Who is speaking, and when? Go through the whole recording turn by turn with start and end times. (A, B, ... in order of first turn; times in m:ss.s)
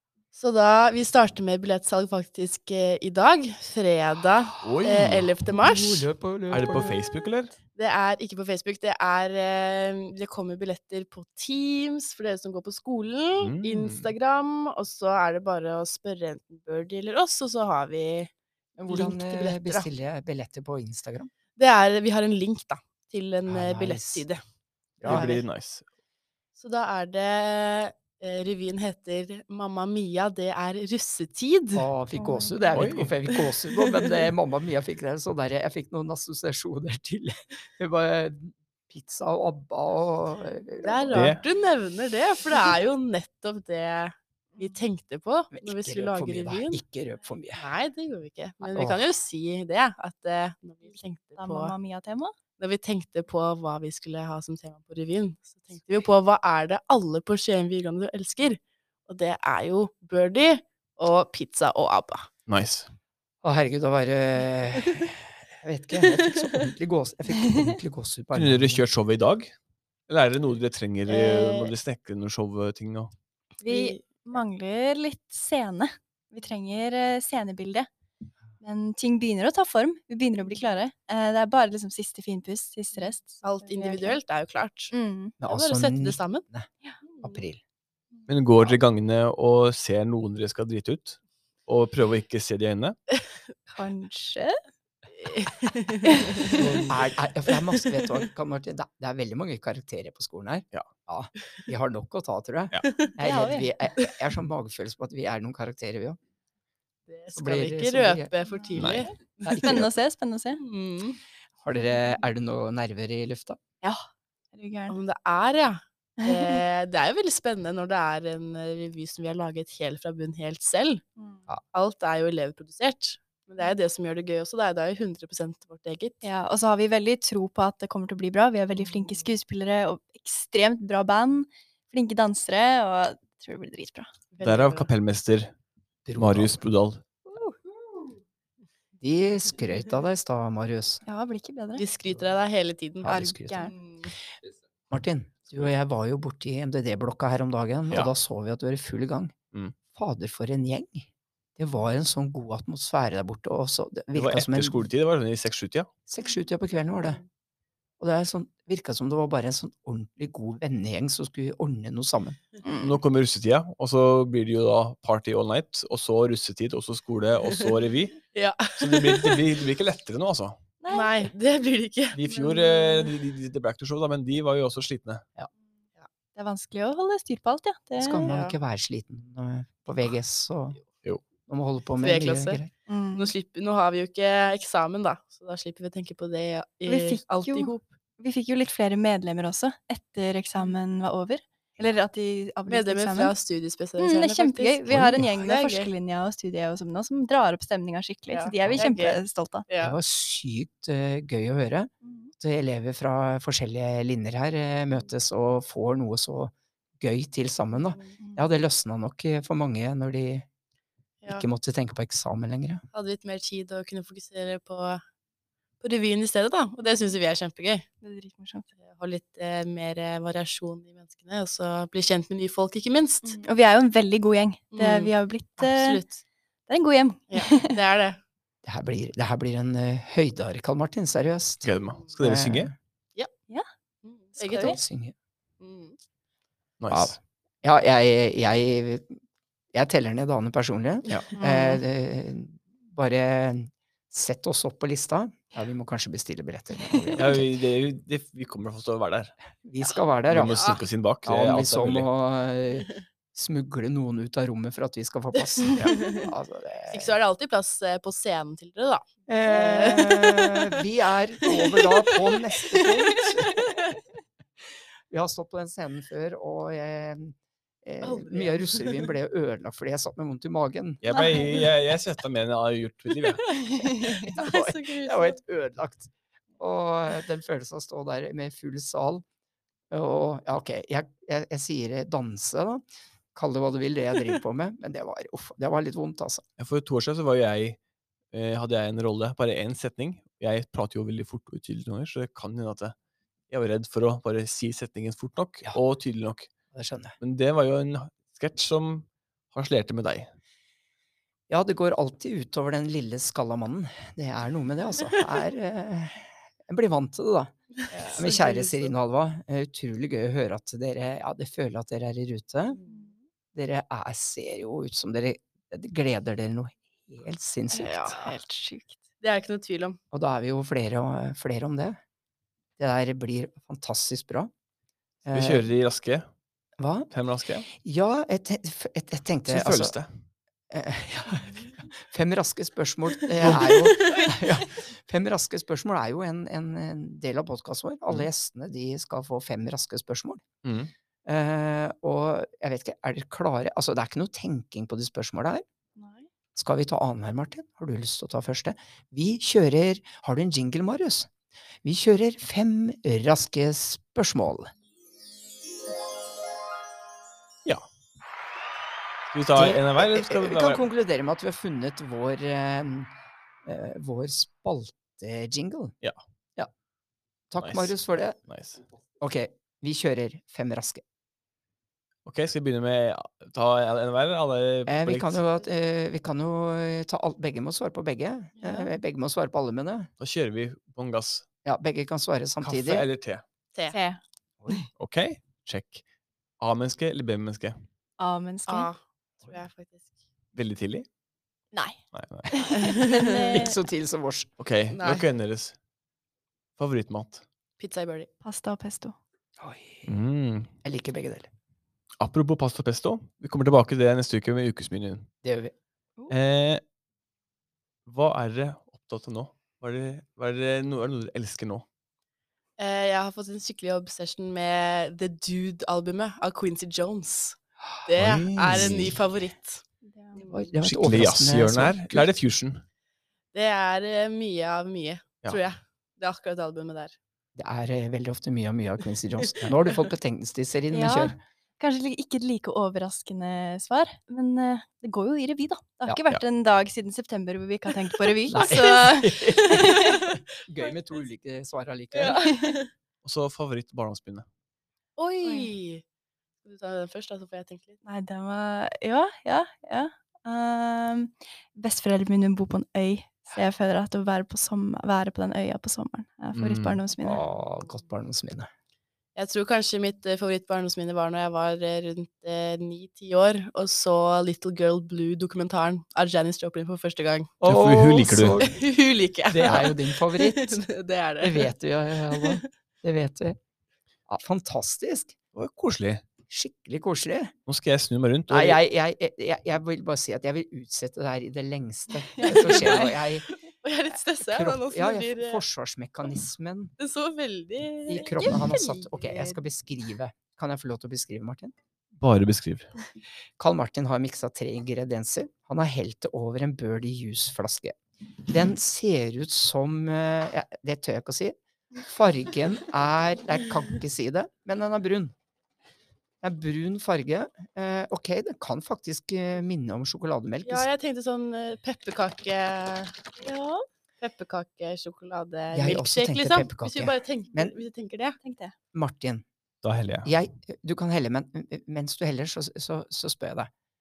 0:00.4-0:06.1 A
0:04.6-0:05.3 B
0:05.6-0:07.0 C
0:06.5-0:07.6 B
0:07.8-0:18.3 A
0:13.4-0:14.1 B
0:18.8-0:21.3 C
0:18.9-0:19.9 A
0:21.6-0:24.4 A
0:23.5-0:24.2 C
0:25.0-0:25.4 C
0:25.0-0:25.8 B
0:26.6-0:31.9 A
0:31.8-0:41.3 C
0:32.2-0:32.7 D
0:32.7-0:33.1 B
0:33.3-0:34.0 A
0:40.8-0:46.8 A
0:41.1-0:41.4 B
0:45.5-0:47.7 C
0:47.6-0:51.7 A
0:48.7-0:49.0 C
0:51.4-0:52.3 D
0:52.6-1:02.3 A
1:02.5-1:02.9 B
1:03.4-1:08.8 C
1:06.0-1:06.6 A
1:08.3-1:09.5 B
1:10.1-1:13.1 B
1:11.1-1:11.7 A
1:13.6-1:17.9 D
1:13.7-1:14.0 A
1:18.6-1:24.2 D
1:23.4-1:24.9 A
1:24.9-1:25.4 D
1:25.4-1:26.7 C
1:25.4-1:26.4 A
1:27.2-1:27.6 C
1:28.3-1:33.0 B
1:33.7-1:34.6 D
1:35.1-1:36.8 A
1:36.0-1:36.7 D
1:36.6-1:46.2 C
1:43.2-1:43.7 D
1:47.1-1:49.7 A
1:47.3-1:48.3 C
1:48.4-1:50.6 D
1:48.8-1:49.0 B
1:49.4-1:49.9 C
1:50.6-1:51.2 A
1:51.6-1:53.6 C
1:53.8-1:55.0 D
1:54.9-2:01.0 A
1:56.2-1:56.6 D
2:01.2-2:01.4 D
2:01.7-2:06.2 A
2:06.2-2:14.1 D
2:14.3-2:14.9 A
2:14.4-2:15.5 B
2:16.1-2:16.6 C
2:16.2-2:17.0 B
2:17.3-2:17.6 D
2:19.0-2:21.0 C
2:21.1-2:21.8 D
2:21.8-2:23.1 A
2:23.0-2:23.7 C
2:23.0-2:23.8 D
2:23.6-2:24.2 A
2:24.9-2:29.3 C
2:29.9-2:34.8 C
2:34.1-2:35.9 B
2:36.1-2:37.2 C
2:38.0-2:42.4 C
2:42.6-2:43.0 D
2:42.8-2:48.2 B
2:48.3-2:49.4 A
2:48.8-2:50.6 B
2:50.8-2:51.3 D
2:50.9-2:52.2 A
2:52.1-2:55.3 B
2:52.3-2:53.1 D
2:56.4-2:58.3 D
2:58.0-3:00.8 C
2:58.3-2:58.6 A
3:01.5-3:02.7 C
3:02.0-3:02.6 A
3:02.9-3:03.3 D
3:03.2-3:07.8 A
3:06.9-3:13.3 D
3:12.7-3:15.9 A
3:14.0-3:19.7 D
3:14.9-3:15.3 C
3:18.3-3:20.0 A
3:19.8-3:30.5 C
3:22.0-3:22.3 D
3:27.8-3:28.2 A
3:28.2-3:28.4 D
3:31.3-3:32.8 C
3:32.9-3:35.0 A
3:35.8-3:37.9 A
3:38.0-3:38.7 D
3:38.8-3:43.4 A
3:43.2-3:46.0 D
3:44.7-3:46.2 A
3:46.7-3:47.8 D
3:47.3-3:48.2 A
3:48.6-3:52.7 C
3:51.6-3:52.7 B
3:54.0-3:54.8 A
3:54.4-3:54.8 D
3:54.5-3:55.2 C
3:55.6-3:56.0 A
3:56.8-3:57.2 B
3:56.9-3:59.2 C
3:59.7-4:07.5 C
4:01.4-4:01.8 D
4:07.2-4:09.3 B
4:09.6-4:10.6 C
4:10.3-4:12.1 B
4:11.3-4:17.2 C
4:15.9-4:16.3 A
4:16.9-4:20.7 A
4:19.3-4:23.8 C
4:25.1-4:31.0 C
4:28.0-4:29.1 A
4:31.0-4:33.5 B
4:31.2-4:31.7 D
4:33.5-4:34.3 D
4:34.1-4:35.4 A
4:34.2-4:39.2 C
4:39.9-4:42.8 C
4:43.4-4:46.4 C
4:46.6-4:47.8 B
4:48.3-4:53.0 B
4:53.5-4:56.5 B
4:56.7-4:57.2 C
4:57.2-5:00.3 B
5:01.5-5:07.5 C
5:07.9-5:08.9 A
5:08.2-5:12.8 C
5:12.9-5:13.1 D
5:13.5-5:18.2 C
5:17.8-5:18.4 A
5:17.8-5:19.0 D
5:19.2-5:20.0 A
5:20.1-5:22.0 C
5:22.8-5:24.5 C
5:25.2-5:25.7 C
5:25.3-5:26.3 B
5:26.8-5:27.1 C
5:27.1-5:27.7 B
5:27.7-5:30.0 C
5:29.5-5:30.1 B
5:30.7-5:40.4 C
5:33.4-5:33.8 B
5:33.5-5:34.3 A
5:40.6-5:40.9 B
5:41.2-5:45.6 C
5:46.0-5:46.3 D
5:46.6-5:51.3 C
5:51.8-5:54.7 C
5:59.3-6:00.8 B
5:59.5-6:03.1 C
6:03.6-6:05.9 C
6:07.5-6:08.4 C
6:07.6-6:07.9 B
6:08.5-6:08.8 B
6:09.2-6:11.0 C
6:12.3-6:15.4 B
6:14.9-6:20.1 C
6:18.6-6:18.9 D
6:20.2-6:21.5 B
6:21.6-6:23.0 C
6:22.6-6:23.4 B
6:23.9-6:24.8 D
6:25.0-6:26.0 B
6:26.6-6:27.8 B
6:28.2-6:28.9 D
6:28.7-6:30.1 A
6:30.6-6:31.1 B
6:32.1-6:32.5 B
6:32.5-6:33.8 D
6:32.7-6:33.6 A
6:33.5-6:34.5 C
6:34.6-6:35.8 B
6:34.9-6:35.3 A
6:36.8-6:37.4 B
6:37.8-6:38.3 A
6:38.4-6:39.2 D
6:39.6-6:40.2 C
6:40.1-6:40.7 B
6:40.8-6:41.5 C
6:42.2-6:45.3 B
6:45.4-6:45.8 C
6:46.3-6:46.8 B
6:48.1-6:51.8 B
6:52.8-6:59.8 A
6:58.2-6:59.2 B
6:58.7-6:59.1 C
7:00.0-7:00.5 D
7:00.4-7:00.6 A
7:00.5-7:02.3 C
7:00.8-7:02.8 B
7:03.5-7:07.2 A
7:07.6-7:11.4 C
7:10.9-7:20.2 D
7:18.5-7:22.5 C
7:18.5-7:20.9 A
7:22.1-7:22.9 A
7:22.5-7:22.8 D
7:23.2-7:24.5 B
7:25.2-7:26.0 A
7:25.4-7:25.7 D
7:26.6-7:28.0 A
7:28.0-7:37.4 D
7:36.5-7:37.0 B
7:37.2-7:38.7 C
7:39.4-7:47.5 A
7:47.6-7:48.8 C
7:47.6-7:48.7 B
7:48.6-7:51.7 A
7:49.5-7:50.8 C
7:51.4-7:53.6 C
7:52.3-7:52.6 A
7:54.3-7:55.3 C
7:55.5-7:56.2 B
7:56.5-7:57.5 C
7:57.7-7:58.8 B
7:58.5-8:03.5 C
8:02.4-8:03.1 D
8:02.4-8:03.0 A
8:03.8-8:05.6 A
8:04.4-8:06.9 C
8:07.0-8:09.6 A
8:08.1-8:11.7 C
8:12.2-8:12.9 B
8:13.6-8:18.0 C
8:18.5-8:25.3 C
8:26.4-8:30.9 C
8:30.6-8:33.4 A
8:33.4-8:33.8 D
8:34.2-8:38.4 A
8:35.7-8:37.8 C
8:38.4-8:38.7 D
8:38.9-8:39.4 C
8:39.8-8:40.3 B
8:40.2-8:43.7 C